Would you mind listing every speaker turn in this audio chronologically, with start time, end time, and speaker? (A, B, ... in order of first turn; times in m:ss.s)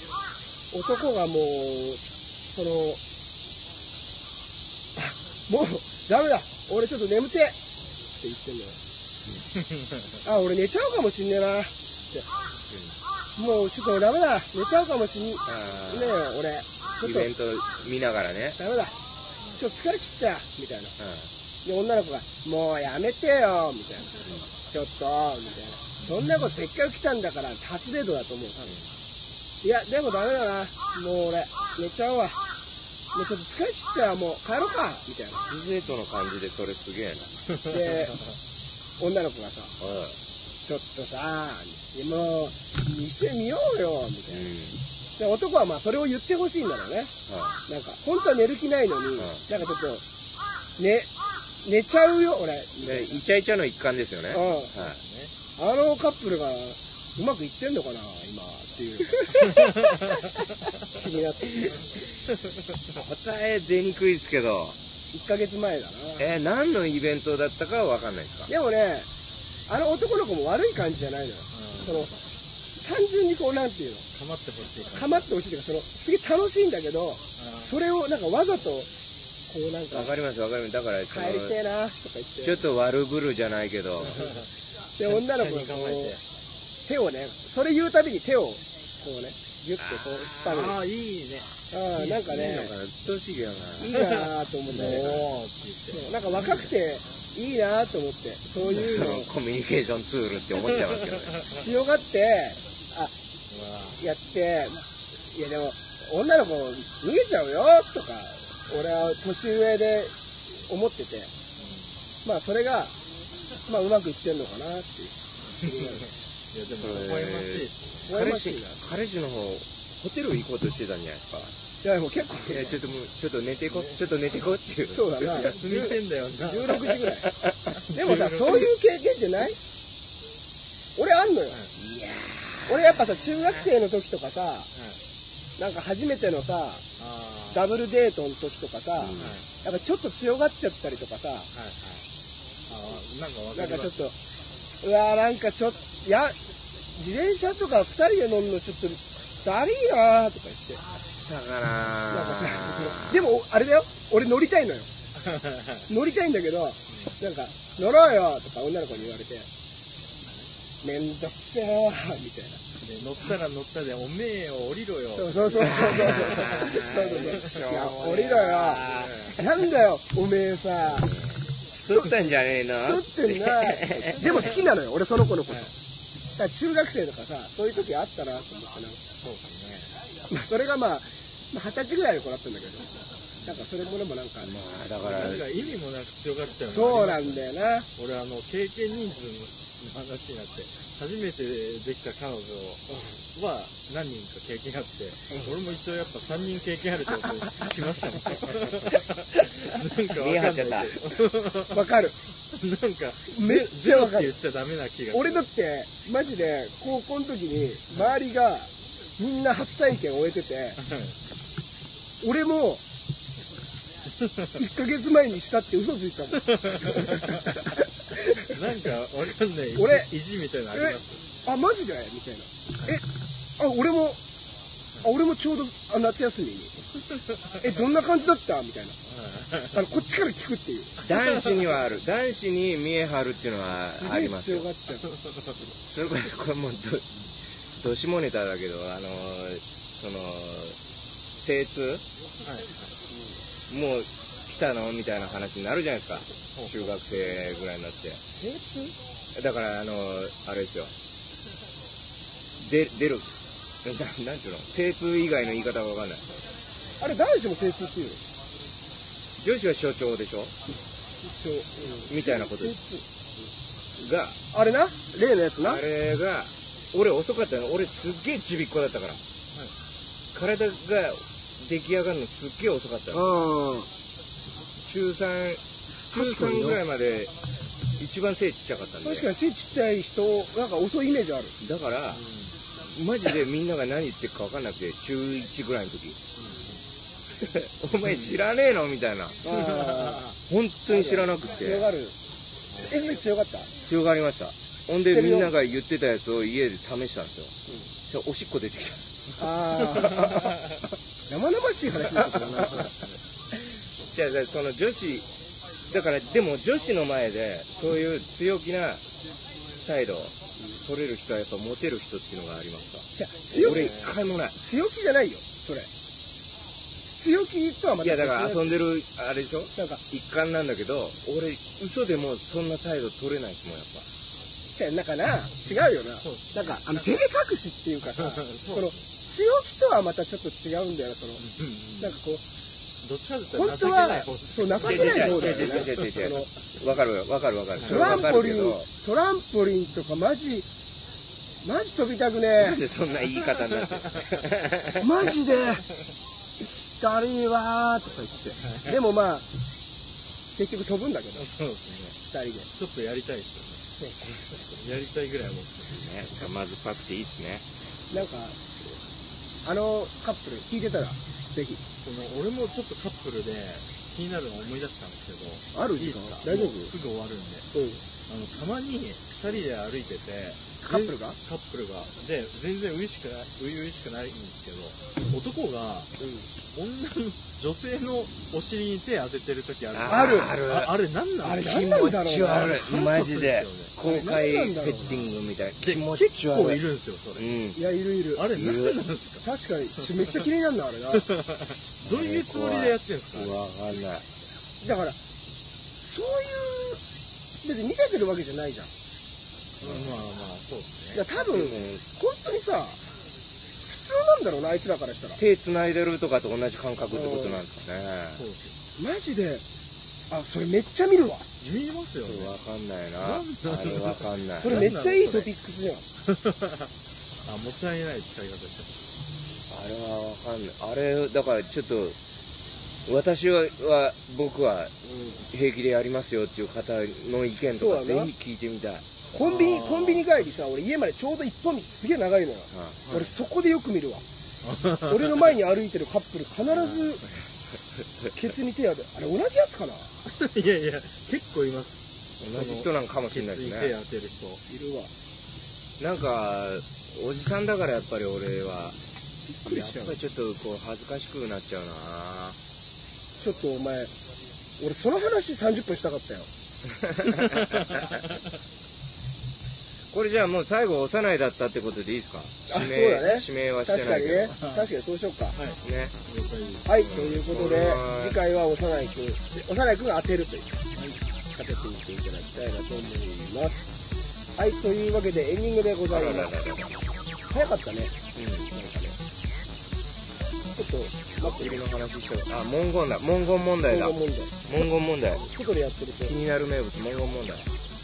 0:00.7-0:03.0 A
0:05.0-0:07.6 A
0:08.1-0:08.8 A
0:10.2-0:12.2 A
0:12.7-0:13.0 B
0:13.4-0:17.3 A
0:15.4-0:16.2 B
0:17.0-0:18.6 B
0:18.6-0:18.9 A
0:19.5-0:20.9 A
0:21.0-0:21.3 B
0:21.6-0:28.7 A
0:26.0-0:26.3 C
0:29.6-0:32.4 A
0:33.1-0:35.4 A
0:35.5-0:37.3 B
0:37.7-0:38.2 A
0:39.0-0:39.7 A
0:39.8-0:40.2 B
0:40.6-0:44.5 A
0:44.3-0:44.8 B
0:45.2-0:47.1 A
0:47.3-0:47.6 B
0:47.7-0:50.0 A
0:49.2-0:49.4 B
0:50.8-0:51.1 A
0:51.6-0:53.1 A
0:52.8-0:55.0 B
0:54.3-0:54.7 A
0:54.7-0:55.3 C
0:55.6-1:00.0 A
1:00.9-1:01.8 A
1:02.9-1:04.8 B
1:05.1-1:06.2 A
1:06.2-1:08.5 B
1:08.5-1:09.1 A
1:09.7-1:12.1 A
1:11.5-1:12.2 C
1:12.8-1:14.0 A
1:14.1-1:15.3 C
1:14.9-1:18.9 A
1:17.4-1:17.7 C
1:19.5-1:20.1 A
1:19.9-1:21.6 B
1:21.1-1:22.6 A
1:22.4-1:24.3 B
1:24.0-1:24.4 C
1:25.0-1:26.2 A
1:25.0-1:26.2 C
1:26.8-1:30.8 A
1:29.8-1:30.7 B
1:30.4-1:32.1 C
1:31.7-1:32.7 A
1:32.0-1:33.9 B
1:33.6-1:36.6 C
1:33.8-1:35.3 A
1:34.9-1:35.2 B
1:35.9-1:39.3 A
1:38.6-1:41.4 B
1:41.5-1:43.1 A
1:43.5-1:44.0 C
1:44.0-1:50.1 A
1:50.7-1:51.3 A
1:51.6-1:51.9 C
1:52.2-1:52.9 A
1:53.6-1:56.1 A
1:55.6-1:58.1 C
1:56.8-2:01.5 B
1:58.0-1:58.8 A
2:01.8-2:02.8 A
2:02.4-2:05.6 B
2:04.9-2:07.3 A
2:05.3-2:06.8 C
2:07.2-2:07.7 B
2:07.8-2:08.7 C
2:07.9-2:09.6 A
2:11.0-2:11.6 A
2:11.8-2:13.5 B
2:12.6-2:14.7 A
2:14.7-2:15.0 C
2:15.6-2:16.8 A
2:17.0-2:17.7 C
2:17.5-2:21.5 A
2:19.0-2:19.4 B
2:19.2-2:19.4 C
2:21.5-2:22.0 C
2:22.7-2:23.9 C
2:23.5-2:24.2 A
2:24.8-2:26.4 A
2:26.9-2:30.8 A
2:31.2-2:33.3 B
2:32.1-2:34.9 A
2:35.2-2:35.9 C
2:35.9-2:39.5 A
2:40.8-2:42.6 A
2:42.8-2:46.7 C
2:45.1-2:51.1 A
2:45.6-2:49.4 B
2:48.8-2:49.4 C
2:51.0-2:54.5 B
2:52.8-2:55.7 A
2:56.4-2:59.0 A
2:59.2-2:59.9 C
3:00.3-3:04.5 A
3:04.4-3:05.5 B
3:05.0-3:21.9 C
3:06.7-3:07.9 A
3:20.1-3:21.0 B
3:21.7-3:22.2 A
3:22.5-3:25.5 C
3:23.3-3:24.3 A
3:25.1-3:30.8 A
3:30.8-3:31.1 C
3:32.2-3:32.8 A
3:34.5-3:38.6 A
3:36.5-3:37.4 C
3:38.4-3:41.2 C
3:39.8-3:40.1 A
3:40.7-3:43.0 A
3:43.6-3:44.2 A
3:45.0-3:46.7 A
3:47.6-3:49.0 A
3:49.1-3:49.8 C
3:49.7-3:51.0 A
3:51.0-3:54.7 B
3:51.1-3:51.6 C
3:54.0-3:55.0 A
3:55.8-3:57.1 B
3:57.8-4:00.8 B
4:01.4-4:02.0 B
4:02.4-4:02.9 C
4:03.7-4:08.2 B
4:08.4-4:08.9 A
4:09.3-4:10.9 B
4:12.6-4:13.3 B
4:13.8-4:16.2 B
4:17.0-4:18.2 A
4:19.4-4:20.5 B
4:21.2-4:23.0 A
4:22.1-4:22.8 B
4:24.0-4:24.4 B
4:24.5-4:25.8 A
4:25.6-4:29.2 B
4:30.3-4:33.3 B
4:33.1-4:33.9 A
4:34.8-4:37.3 B
4:36.1-4:36.8 A
4:38.0-4:39.3 B
4:39.0-4:41.5 A
4:41.6-4:42.2 B
4:42.1-4:42.6 C
4:42.9-4:46.2 B
4:46.4-4:46.8 C
4:47.4-4:49.4 B
4:49.4-4:50.3 A
4:49.5-4:50.3 C
4:50.5-4:51.9 B
4:50.9-4:52.1 A
4:52.8-4:53.7 A
4:53.8-4:57.5 B
4:55.0-4:55.5 A
4:58.1-4:59.0 B
4:59.4-5:00.4 A
5:01.3-5:02.9 A
5:02.4-5:02.6 B
5:02.6-5:02.9 C
5:04.1-5:05.2 B
5:05.9-5:09.0 B
5:09.8-5:14.6 B
5:13.1-5:14.0 A
5:13.6-5:14.1 C
5:14.6-5:15.9 A
5:17.1-5:18.8 A
5:18.0-5:24.0 B
5:19.7-5:20.0 A
5:24.7-5:31.4 A
5:25.6-5:27.2 C
5:28.2-5:29.0 C
5:31.4-5:32.2 C
5:32.0-5:32.4 A
5:33.0-5:36.1 C
5:33.5-5:36.5 A
5:34.8-5:38.9 B
5:37.8-5:38.3 C
5:37.8-5:40.7 A
5:41.6-5:42.8 A
5:42.6-5:45.1 B
5:43.2-5:44.4 C
5:45.0-5:45.8 A
5:47.0-5:49.5 A
5:50.6-5:51.5 A
5:51.4-5:52.2 C
5:52.3-5:52.7 A
5:52.7-5:53.8 C
5:54.7-5:56.0 C
5:55.9-5:57.7 B
5:58.1-5:58.6 A
5:59.6-6:01.8 A
6:02.0-6:07.7 C
6:05.7-6:06.9 A
6:07.7-6:08.0 A
6:08.3-6:16.1 C
6:10.8-6:11.4 A
6:16.2-6:16.5 A
6:16.6-6:21.8 C
6:19.9-6:20.9 B
6:20.1-6:20.5 A
6:21.4-6:22.8 A
6:21.6-6:26.8 B
6:22.4-6:23.9 C
6:24.0-6:25.3 A
6:25.8-6:27.5 C
6:27.4-6:27.8 B
6:27.8-6:28.5 A
6:28.4-6:29.4 C
6:28.5-6:29.1 B
6:29.4-6:31.2 A
6:31.1-6:33.6 C
6:32.0-6:34.2 B
6:34.8-6:35.2 A
6:36.0-6:37.0 A
6:37.6-6:38.9 A
6:39.8-6:40.3 B
6:39.8-6:41.2 C
6:41.1-6:43.0 A
6:41.4-6:42.0 B
6:43.8-6:45.4 A
6:45.4-6:48.4 B
6:47.1-6:47.6 A
6:48.4-6:48.7 C
6:49.0-6:49.6 A
6:50.3-6:51.5 A
6:51.6-6:52.5 C
6:52.2-6:54.9 B
6:53.2-6:55.5 C
6:54.6-6:56.0 A
6:56.2-6:56.9 C
6:57.4-6:59.0 C
6:59.7-7:02.2 B
7:03.0-7:04.9 B
7:05.0-7:05.4 A
7:05.5-7:09.1 B
7:07.8-7:08.3 A
7:09.3-7:14.2 A
7:09.4-7:10.4 C
7:12.7-7:13.0 B
7:13.0-7:13.3 C
7:14.6-7:15.5 C
7:15.0-7:17.2 A
7:16.7-7:17.1 C
7:18.0-7:18.3 B
7:18.3-7:20.1 A
7:20.2-7:24.6 C
7:22.4-7:23.9 B
7:24.7-7:25.1 A
7:26.0-7:29.0 B
7:29.5-7:30.1 A
7:29.7-7:32.6 B
7:33.4-7:34.1 A
7:34.8-7:36.5 A
7:37.0-7:38.2 B
7:37.4-7:38.2 C
7:40.1-7:44.6 B
7:42.7-7:45.6 A
7:44.6-7:44.9 C
7:45.6-7:46.9 C
7:45.8-7:46.1 B
7:46.8-7:50.8 A
7:47.0-7:48.4 B
7:50.9-7:51.2 C
7:51.5-7:53.8 A
7:54.6-7:56.6 A
7:56.1-7:56.9 B
7:57.5-7:58.2 A
7:58.3-7:58.7 B
7:58.7-7:59.2 A
8:00.7-8:01.8 A
8:01.4-8:05.4 B
8:03.9-8:04.5 A
8:05.4-8:06.4 A
8:06.2-8:07.7 B